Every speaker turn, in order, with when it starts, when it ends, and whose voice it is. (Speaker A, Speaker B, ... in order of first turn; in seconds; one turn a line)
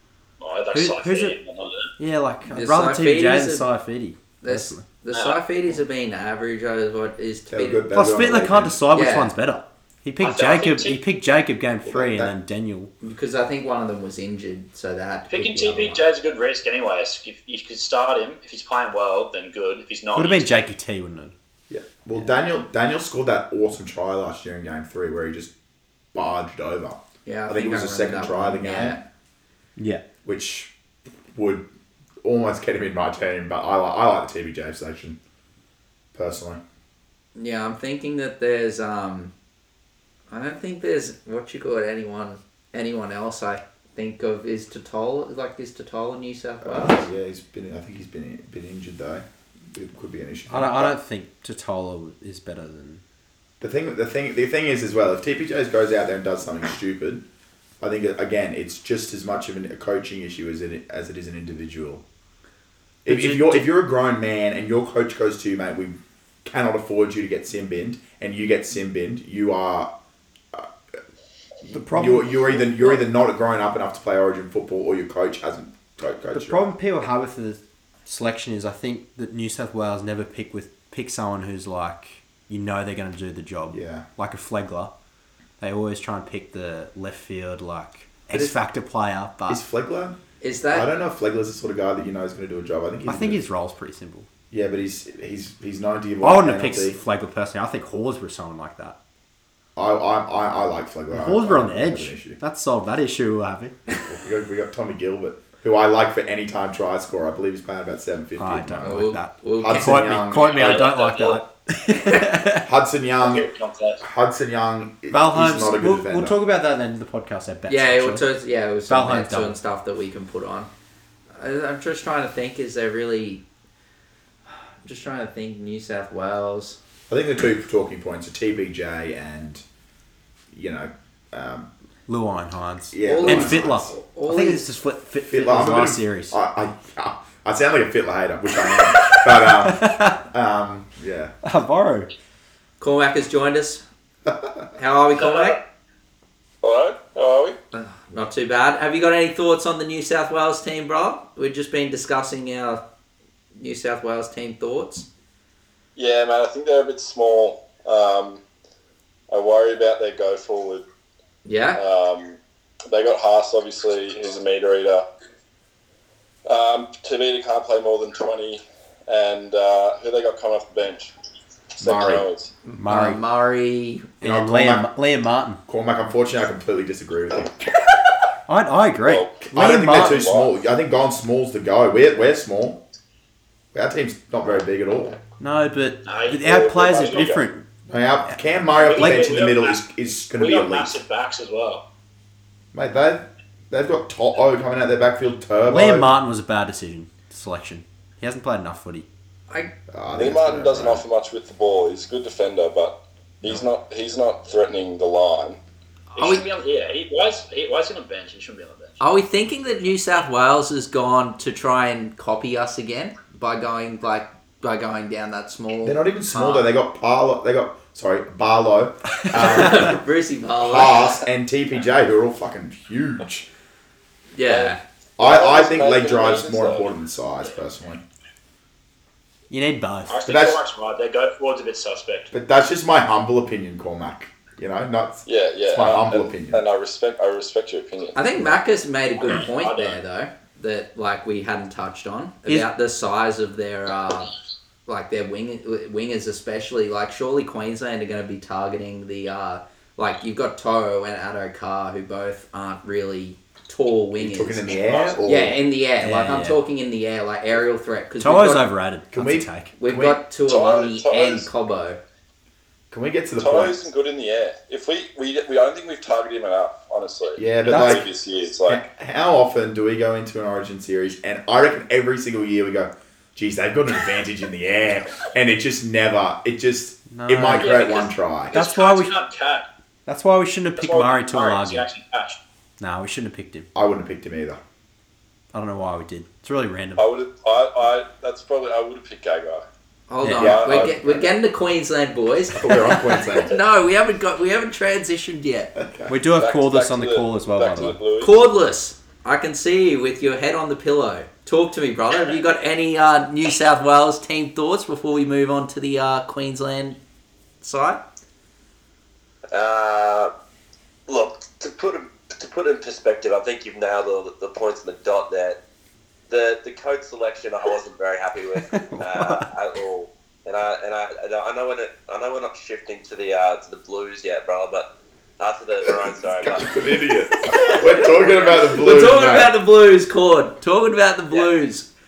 Speaker A: 0.4-1.9
Speaker B: 0.7-1.4
Speaker B: 2.0-4.9
Speaker C: 2.5-3.7
Speaker C: 4.4-7.8
Speaker A: 5.1-5.4
Speaker D: 7.5-8.8
Speaker B: 7.9-12.9
Speaker C: 8.9-9.3
Speaker A: 10.2-11.0
Speaker D: 11.8-12.3
Speaker C: 13.0-16.1
Speaker A: 15.3-20.7
Speaker B: 20.1-21.3
Speaker D: 21.7-25.5
Speaker D: 26.1-29.0
Speaker C: 27.2-29.0
Speaker B: 29.8-30.0
Speaker D: 30.2-30.7
Speaker D: 31.3-31.7
Speaker D: 32.2-35.2
Speaker D: 36.1-36.6
Speaker C: 37.4-39.3
Speaker C: 40.3-47.1
Speaker D: 46.6-51.0
Speaker B: 50.5-53.0
Speaker D: 53.6-57.2
Speaker D: 57.8-62.0
Speaker B: 63.0-63.7
Speaker D: 63.0-69.9
Speaker D: 71.6-76.7
Speaker B: 71.7-73.0
Speaker B: 76.3-84.9
Speaker D: 83.7-84.1
Speaker B: 85.6-89.6
Speaker D: 89.5-90.2
Speaker C: 90.4-90.9
Speaker D: 90.7-93.4
Speaker B: 93.0-94.3
Speaker D: 94.5-97.0
Speaker B: 96.2-99.0
Speaker D: 99.8-102.4
Speaker B: 101.1-103.9
Speaker D: 104.0-109.0
Speaker B: 108.4-112.7
Speaker C: 108.8-110.0
Speaker D: 109.6-110.9
Speaker A: 110.4-111.4
Speaker D: 112.6-113.5
Speaker A: 113.2-114.0
Speaker D: 114.0-116.4
Speaker B: 115.1-118.3
Speaker C: 117.7-120.7
Speaker B: 118.9-119.6
Speaker C: 121.3-123.4
Speaker C: 124.8-126.8
Speaker D: 127.1-129.6
Speaker D: 130.5-131.7
Speaker B: 132.1-136.4
Speaker D: 132.9-133.9
Speaker C: 133.0-134.7
Speaker D: 135.3-141.3
Speaker B: 139.0-140.2
Speaker B: 141.4-142.1
Speaker C: 142.8-143.8
Speaker D: 144.2-144.6
Speaker C: 144.8-145.6
Speaker A: 145.2-145.6
Speaker E: 146.6-147.6
Speaker C: 147.7-152.8
Speaker C: 153.6-155.1
Speaker E: 155.9-158.4
Speaker E: 159.3-160.8
Speaker C: 161.4-161.8
Speaker E: 161.7-165.0
Speaker E: 166.4-171.1
Speaker E: 171.8-172.5
Speaker D: 171.8-172.2
Speaker C: 172.7-174.1
Speaker B: 172.7-173.2
Speaker B: 174.2-175.6
Speaker D: 174.2-174.9
Speaker D: 175.7-177.6
Speaker B: 178.5-180.3
Speaker E: 179.0-180.5
Speaker D: 179.5-182.8
Speaker D: 183.7-185.2
Speaker B: 185.4-187.6
Speaker A: 186.0-187.3
Speaker E: 186.5-187.4
Speaker D: 187.9-191.0
Speaker A: 188.8-189.8
Speaker B: 188.9-189.3
Speaker A: 190.3-191.8
Speaker D: 192.7-196.1
Speaker B: 195.7-199.1
Speaker D: 199.9-201.0
Speaker E: 200.1-205.6
Speaker C: 206.1-206.4
Speaker A: 206.2-209.0
Speaker C: 209.0-216.7
Speaker D: 215.8-220.0
Speaker B: 219.2-219.9
Speaker C: 219.3-221.2
Speaker D: 220.6-223.5
Speaker C: 224.3-224.8
Speaker E: 224.4-226.9
Speaker D: 225.2-228.0
Speaker B: 229.5-230.2
Speaker A: 230.1-232.3
Speaker D: 230.2-230.6
Speaker D: 232.3-236.6
Speaker E: 235.2-238.2
Speaker C: 238.1-244.3
Speaker A: 239.2-240.0
Speaker C: 244.8-254.7
Speaker D: 254.2-255.6
Speaker E: 254.7-255.2
Speaker C: 255.2-258.7
Speaker B: 256.0-256.6
Speaker B: 258.2-259.7
Speaker D: 259.1-260.2
Speaker C: 259.8-262.0
Speaker E: 260.4-261.5
Speaker D: 262.9-263.8
Speaker E: 263.4-268.8
Speaker D: 267.4-268.1
Speaker B: 267.6-268.1
Speaker D: 268.6-278.6
Speaker B: 277.1-277.9
Speaker A: 277.5-279.6
Speaker B: 278.5-279.1
Speaker B: 280.1-281.9
Speaker A: 280.8-282.4
Speaker B: 282.8-283.7
Speaker D: 283.7-284.6
Speaker B: 285.5-287.1
Speaker E: 286.9-289.6
Speaker C: 290.1-295.7
Speaker B: 290.2-290.6
Speaker E: 290.4-291.0
Speaker D: 290.4-291.3
Speaker D: 292.5-293.6
Speaker D: 295.7-296.1
Speaker B: 296.1-298.0
Speaker E: 296.3-298.4
Speaker C: 298.2-307.0
Speaker C: 307.6-308.0
Speaker F: 309.5-310.3
Speaker F: 311.1-315.6
Speaker F: 316.3-324.9
Speaker B: 318.6-319.5
Speaker F: 325.4-326.9
Speaker D: 326.4-329.5
Speaker C: 327.5-331.9
Speaker F: 327.6-328.7